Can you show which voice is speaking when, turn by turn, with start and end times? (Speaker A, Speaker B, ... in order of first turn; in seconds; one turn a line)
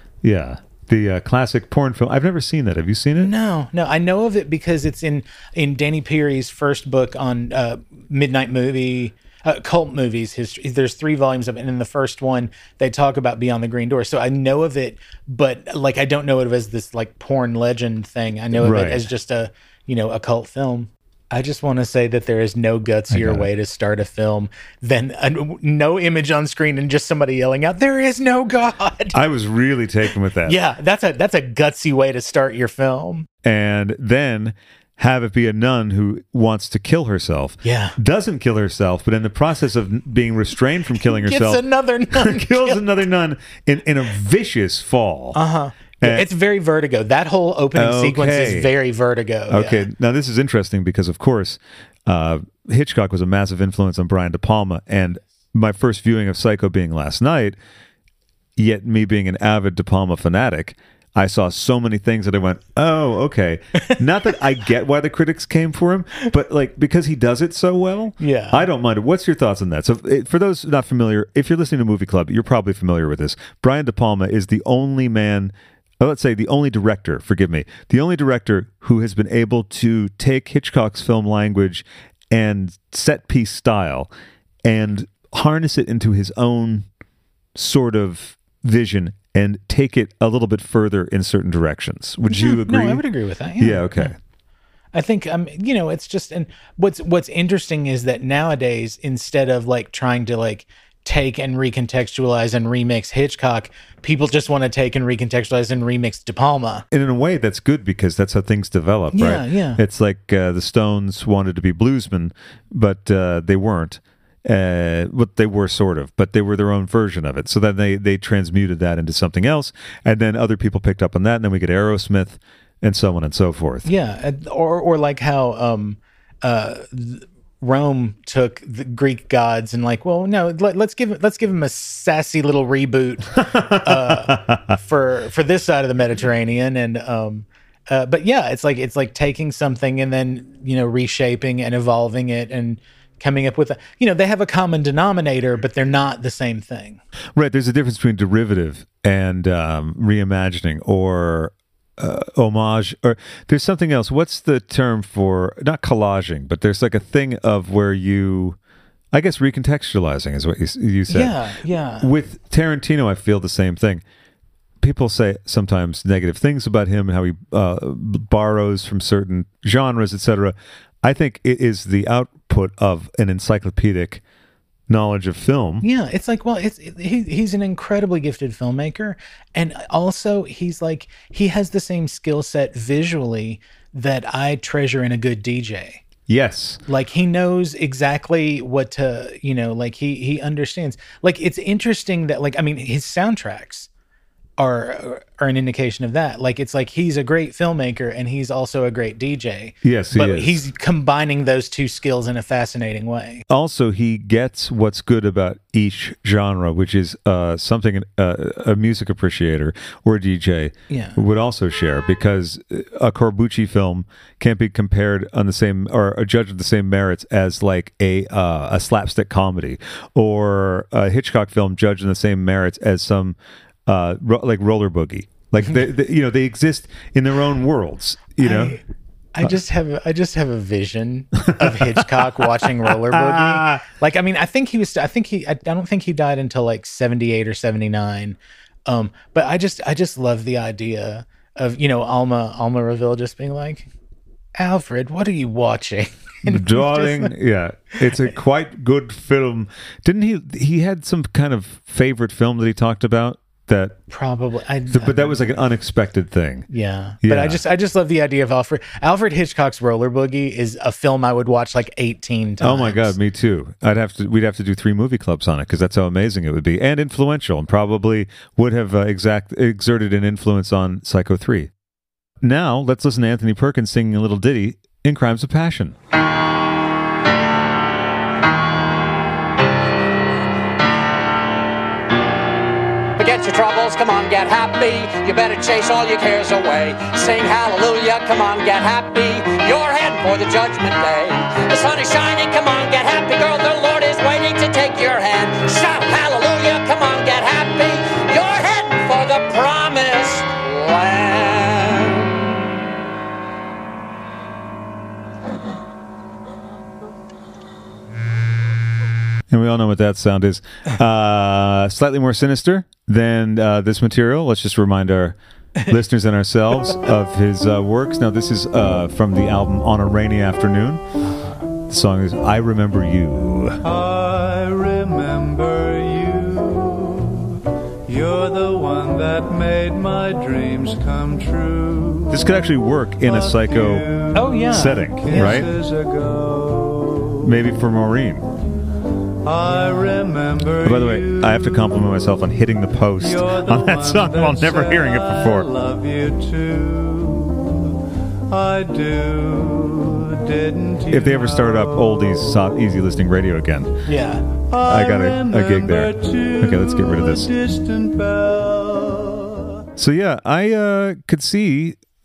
Speaker A: 0.2-3.3
Speaker B: 3.2-29.2
Speaker A: 18.6-19.1
Speaker A: 23.1-23.5
Speaker A: 29.1-30.6
Speaker B: 30.4-33.3
Speaker A: 33.4-45.4
Speaker B: 37.6-38.0
Speaker B: 41.0-42.8
Speaker B: 45.4-49.9
Speaker A: 46.0-46.3
Speaker A: 47.8-48.7
Speaker A: 49.5-57.6
Speaker A: 58.6-84.1
Speaker B: 68.2-68.7
Speaker A: 84.6-86.9
Speaker A: 87.5-93.0
Speaker B: 92.3-94.1
Speaker A: 93.6-94.2
Speaker B: 94.9-106.8
Speaker A: 106.9-123.9
Speaker B: 109.1-109.8
Speaker B: 123.8-147.0
Speaker A: 133.4-134.8
Speaker A: 147.3-158.6
Speaker A: 159.1-161.4
Speaker B: 161.1-162.1
Speaker A: 162.0-164.0
Speaker A: 164.8-174.2
Speaker A: 174.9-175.9
Speaker B: 175.8-186.0
Speaker A: 186.3-186.8
Speaker B: 186.9-193.9
Speaker B: 194.6-203.4
Speaker A: 199.8-200.6
Speaker A: 203.5-228.8
Speaker B: 210.9-211.2
Speaker B: 228.4-228.8
Speaker B: 229.3-243.9
Speaker A: 231.5-232.1
Speaker A: 232.6-233.8
Speaker B: 244.6-247.3
Speaker A: 246.4-254.0
Speaker B: 254.1-255.4
Speaker A: 254.9-256.7
Speaker B: 256.7-263.1
Speaker A: 257.2-257.6
Speaker A: 262.6-271.7
Speaker A: 272.4-275.9
Speaker C: 283.2-302.4
Speaker A: 309.5-321.0
Speaker B: 321.3-321.6
Speaker A: 321.9-323.8
Speaker D: 323.8-332.5
Speaker A: 332.3-334.1
Speaker D: 333.2-337.5
Speaker B: 334.4-335.6
Speaker A: 334.7-335.7
Speaker A: 337.4-338.5
Speaker D: 339.4-342.0
Speaker A: 340.8-345.7
Speaker D: 343.2-352.6
Speaker A: 351.1-354.0
Speaker B: 354.1-354.4
Speaker D: 354.7-359.8
Speaker A: 354.8-357.5
Speaker A: 360.0-362.0